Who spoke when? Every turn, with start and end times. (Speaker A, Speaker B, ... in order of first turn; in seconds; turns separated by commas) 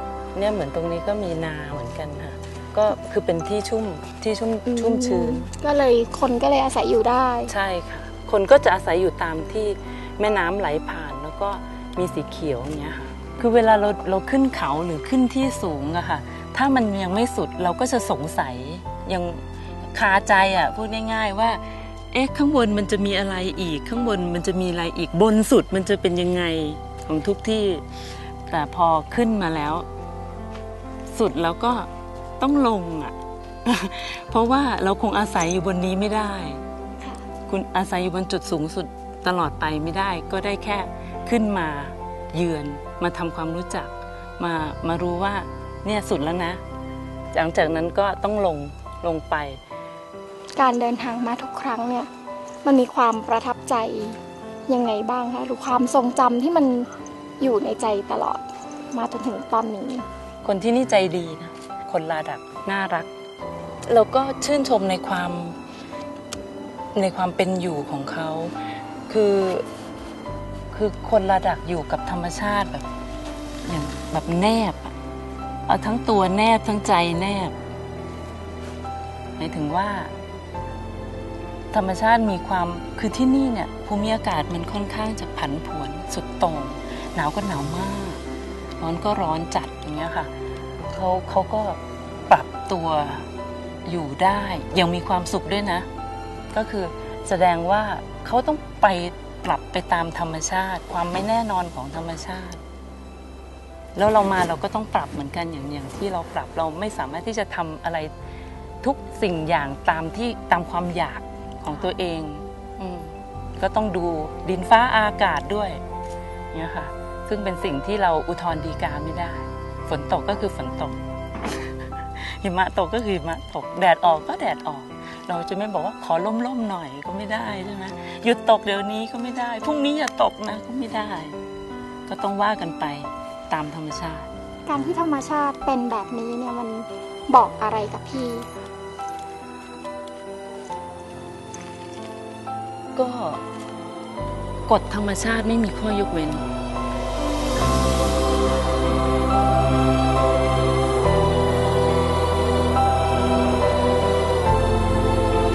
Speaker A: 0.3-5.5, Speaker B: 4.7-7.5, Speaker A: 7.5-27.8, Speaker A: 28.5-29.9, Speaker A: 31.1-31.9, Speaker A: 32.4-33.1, Speaker A: 33.7-36.6, Speaker A: 37.5-46.6, Speaker A: 47.3-49.6, Speaker B: 50.6-52.1, Speaker B: 52.6-60.0, Speaker A: 60.4-63.1, Speaker A: 63.9-65.6, Speaker A: 66.9-68.5, Speaker A: 69.1-69.7, Speaker A: 70.7-72.9, Speaker A: 73.6-74.9, Speaker A: 75.7-77.5, Speaker A: 79.4-80.1, Speaker A: 81.7-88.2, Speaker A: 88.8-90.3, Speaker A: 90.9-93.3, Speaker A: 93.8-95.9, Speaker A: 96.5-102.6, Speaker A: 104.0-108.1, Speaker A: 108.8-115.8, Speaker A: 116.5-121.0, Speaker A: 121.6-131.4, Speaker A: 132.1-134.3, Speaker B: 134.7-138.5, Speaker A: 143.0-143.4, Speaker A: 144.7-146.4